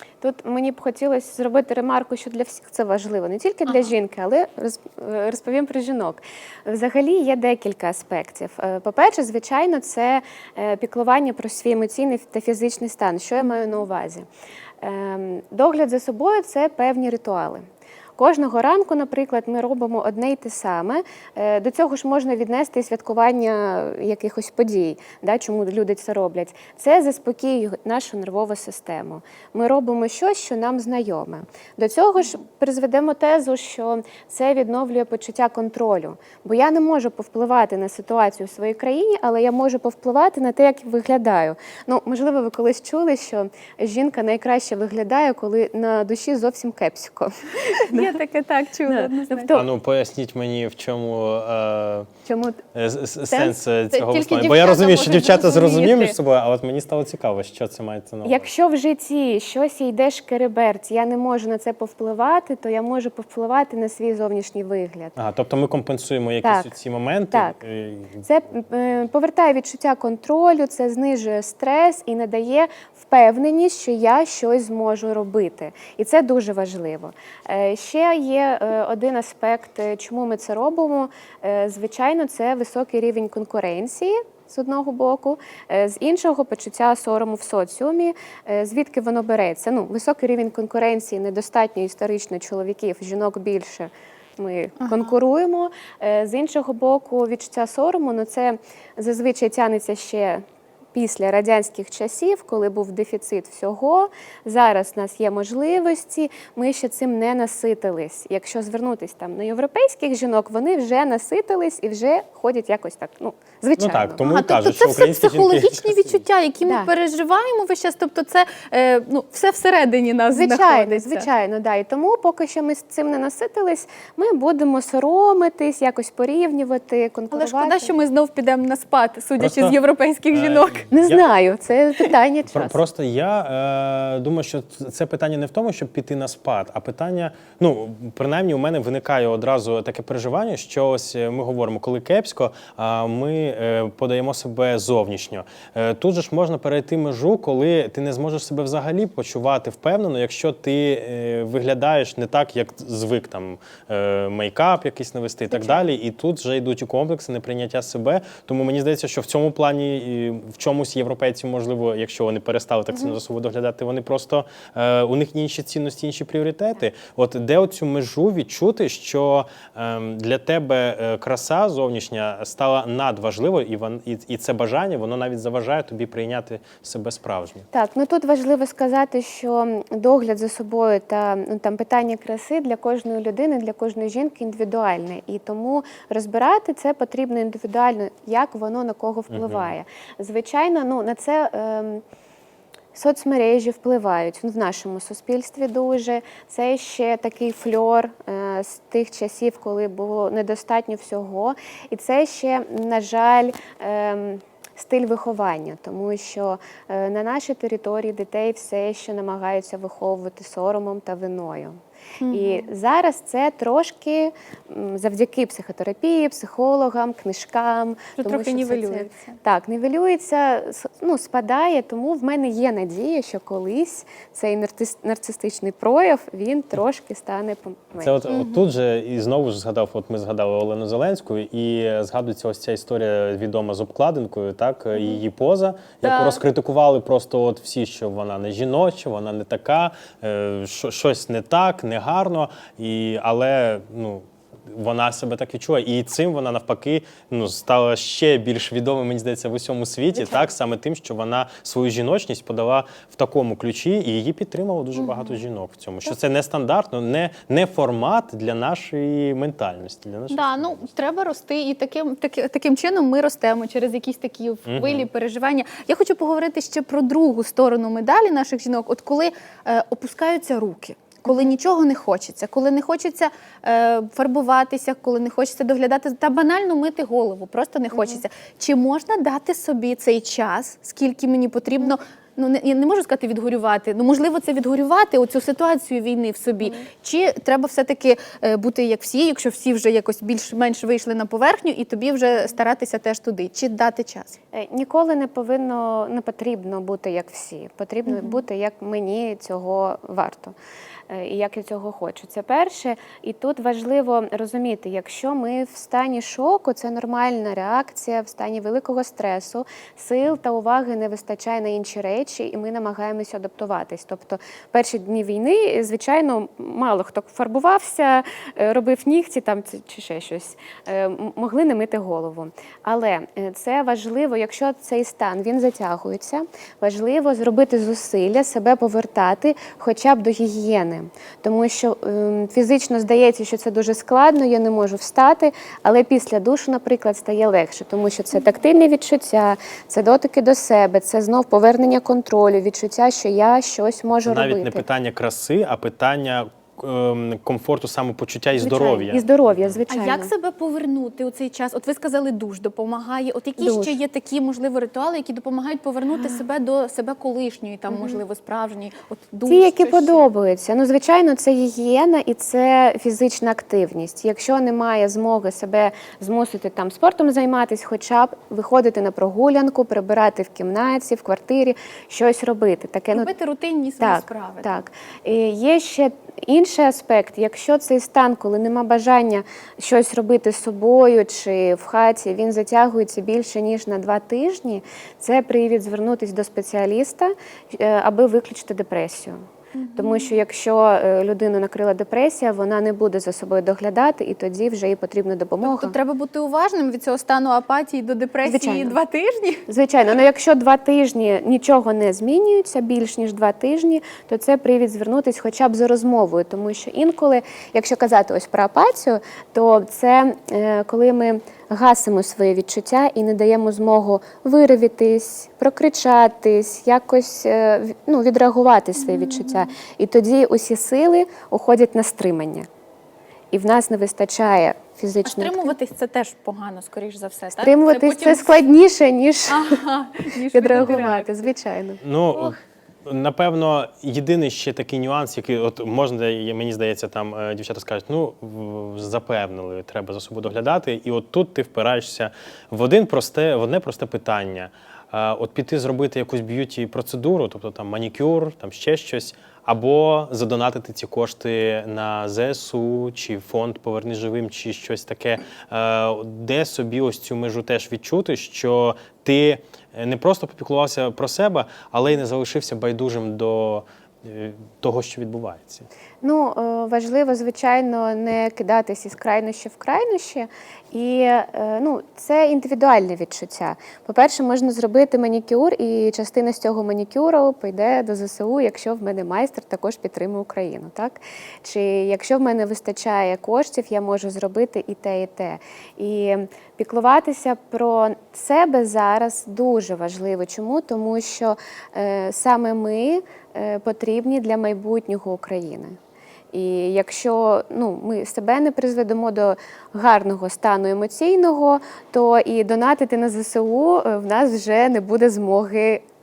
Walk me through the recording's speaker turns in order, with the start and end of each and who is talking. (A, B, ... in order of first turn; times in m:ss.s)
0:00.2-0:14.2 A
0:13.4-0:13.7 B
0:14.8-0:17.6 A
0:18.2-0:48.1 A
0:47.7-0:49.5 B
0:48.9-0:49.7 A
0:49.5-0:52.1 C
0:52.2-0:52.6 A
0:52.7-0:58.5 C
0:53.3-0:56.2 B
0:58.2-1:05.1 A
1:05.2-1:08.2 C
1:06.4-1:06.7 A
1:07.3-1:07.6 A
1:08.2-1:40.4 A
1:34.8-1:35.1 B
1:40.9-1:54.2 A
1:53.8-1:56.2 C
1:54.2-2:01.3 B
2:00.3-2:07.9 A
2:07.3-2:10.8 B
2:09.4-2:09.8 C
2:10.3-2:11.3 C
2:10.9-2:12.8 A
2:12.5-2:57.6 C
2:35.5-2:35.8 A
2:57.7-3:12.0 A
3:09.3-3:09.7 C
3:12.9-3:31.8 A
3:32.2-3:32.7 B
3:32.3-3:48.1 A
3:38.2-3:39.3 B
3:48.0-4:20.8 C
3:48.3-3:48.6 B
3:56.0-3:56.4 B
4:14.9-4:15.4 B
4:20.3-4:54.4 B
4:24.6-4:25.1 C
4:31.3-4:31.5 A
4:37.9-4:38.2 A
4:54.5-5:00.5 A
4:58.0-4:58.4 B
5:01.1-5:44.8 A
5:44.2-5:49.8 C
5:48.5-5:50.3 A
5:49.9-6:00.2 B
5:53.6-5:54.0 A
5:56.2-5:56.4 A
5:57.9-5:58.2 A
5:59.4-6:13.3 A
6:13.1-6:14.8 B
6:14.0-6:29.4 A
6:29.7-6:30.4 B
6:30.0-6:35.9 A
6:35.6-6:39.6 B
6:38.4-6:39.0 A
6:39.7-7:02.7 A
6:59.0-6:59.7 B
7:03.5-7:05.7 A
7:05.2-7:08.6 B
7:07.5-7:09.8 A
7:09.5-7:11.3 B
7:10.5-7:12.0 A
7:12.0-7:45.9 C
7:46.2-8:16.0 A
8:16.5-8:26.0 A